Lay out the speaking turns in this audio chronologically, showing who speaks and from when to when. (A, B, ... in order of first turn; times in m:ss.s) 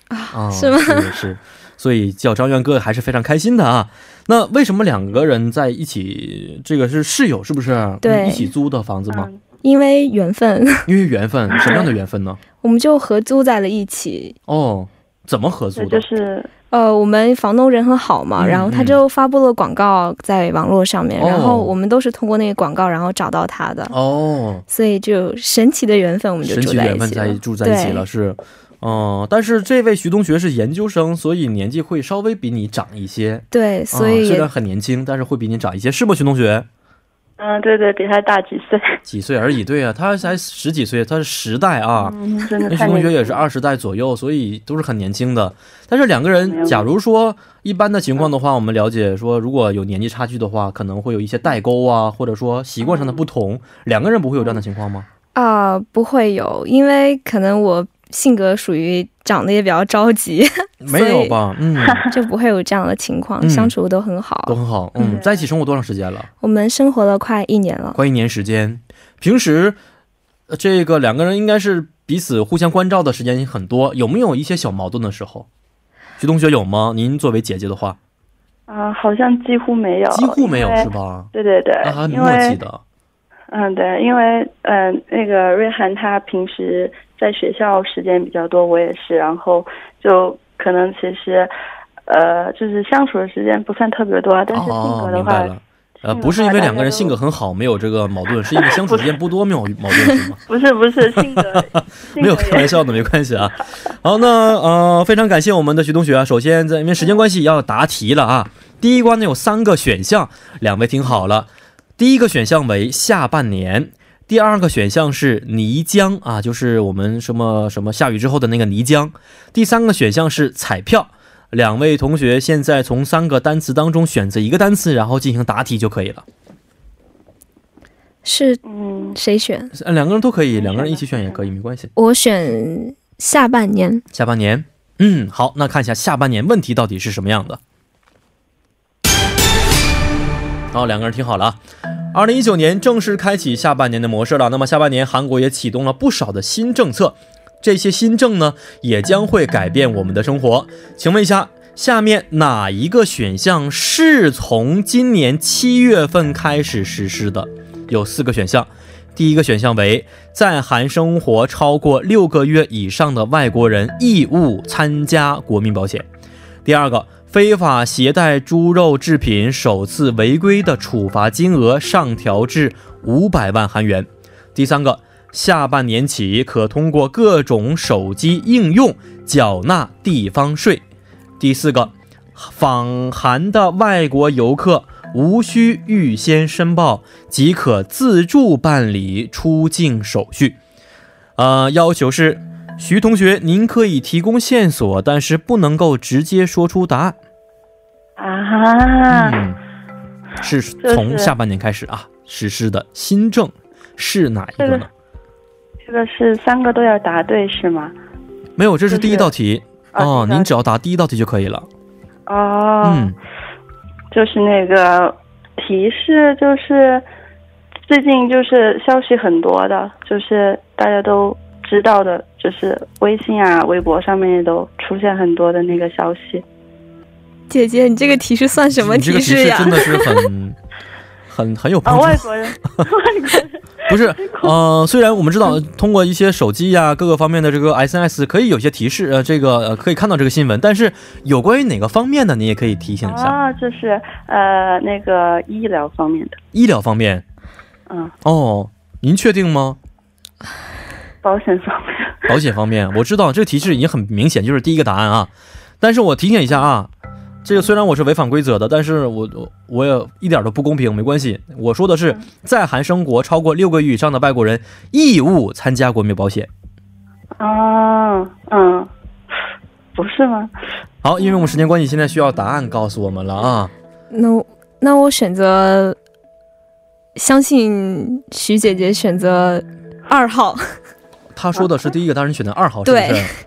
0:00.1-0:01.1 A
0:00.3-0:09.3 B
0:08.0-0:08.5 A
0:09.1-0:09.4 C
0:09.6-0:10.9 A
0:10.9-0:12.4 B
0:12.6-0:14.4 A
0:14.5-0:16.1 B
0:15.8-0:16.5 C
0:16.7-0:23.9 A
0:18.4-0:19.0 B
0:21.2-0:21.7 B
0:23.9-0:24.6 B
0:24.7-0:28.0 A
0:26.4-0:36.7 B
0:33.5-0:34.5 A
0:37.4-0:39.0 C
0:39.0-0:42.2 B
0:42.0-0:43.4 C
0:42.7-0:55.1 B
0:46.4-0:46.9 C
0:55.3-1:01.4 A
1:00.8-1:02.1 B
1:01.8-1:02.1 C
1:02.1-1:05.2 A
1:03.4-1:03.7 B
1:04.5-1:06.3 B
1:05.0-1:05.3 C
1:06.4-1:08.0 A
1:08.0-1:09.8 B
1:10.5-1:15.5 B
1:16.2-1:18.0 B
1:18.7-1:22.6 C
1:20.1-1:21.3 B
1:21.8-1:22.8 B
1:23.5-1:31.5 C
1:32.1-1:35.5 C
1:34.5-1:40.4 B
1:36.1-1:37.2 C
1:38.6-1:39.1 C
1:40.5-1:42.9 C
1:41.0-2:06.2 B
2:08.2-2:08.6 A
2:08.6-2:09.2 C
2:09.1-2:09.7 A
2:09.7-2:11.9 B
2:10.6-2:11.4 C
2:12.0-2:14.0 A
2:14.1-2:17.6 B
2:20.7-2:21.6 B
2:22.1-2:46.1 B
2:46.6-3:00.8 B
3:01.4-3:10.6 B
3:11.4-3:17.2 B
3:18.2-3:19.4 C
3:19.1-3:19.6 B
3:20.4-3:24.9 B
3:20.8-3:21.3 C
3:24.6-3:24.9 C
3:25.8-3:27.9 C
3:28.6-3:31.7 B
3:28.9-3:29.3 C
3:30.0-3:30.5 C
3:32.3-3:33.1 C
3:32.8-3:33.2 B
3:34.1-3:37.0 C
3:37.9-3:46.4 C
3:47.5-3:50.3 A
3:48.7-3:50.6 B
3:51.3-3:52.9 B
3:51.8-3:54.6 C
3:53.9-4:03.4 B
4:03.0-4:06.4 C
4:06.5-4:07.2 B
4:07.9-4:08.1 C
4:08.2-4:09.8 B
4:11.2-4:12.3 C
4:12.3-4:16.9 B
4:17.4-4:26.5 B
4:27.4-4:28.9 C
4:30.0-4:30.5 C
4:31.0-4:33.7 B
4:34.1-4:36.0 A
4:37.2-4:40.8 A
4:41.3-4:43.3 B
4:42.8-4:43.3 A